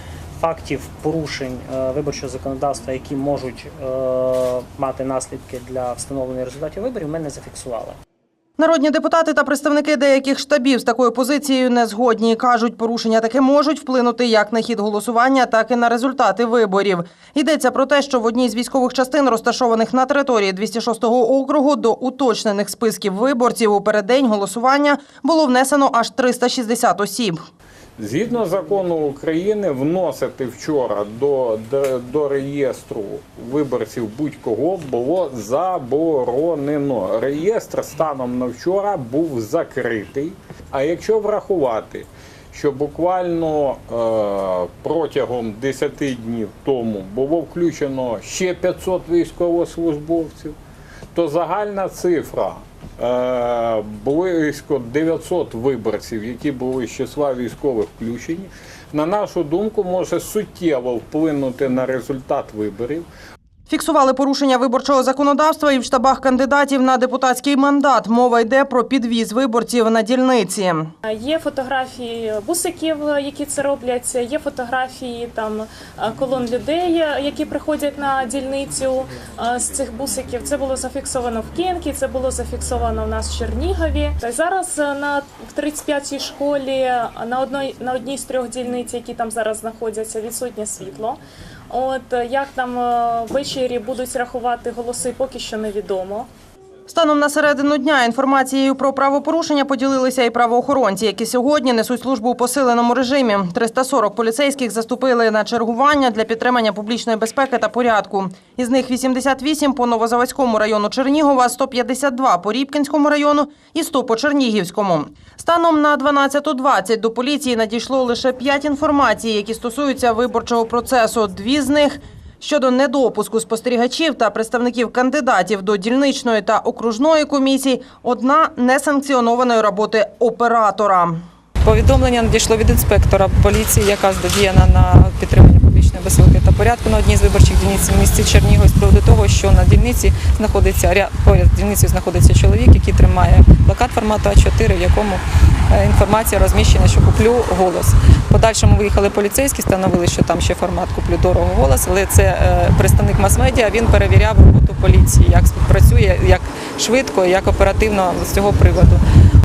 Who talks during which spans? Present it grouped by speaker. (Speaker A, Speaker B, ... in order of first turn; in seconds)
Speaker A: 0.4-8.0
Speaker B: 8.6-27.4, 63.7-70.9, 96.9-131.2
Speaker C: 28.0-50.5, 51.1-63.1
Speaker D: 71.0-96.3
Speaker E: 131.6-159.0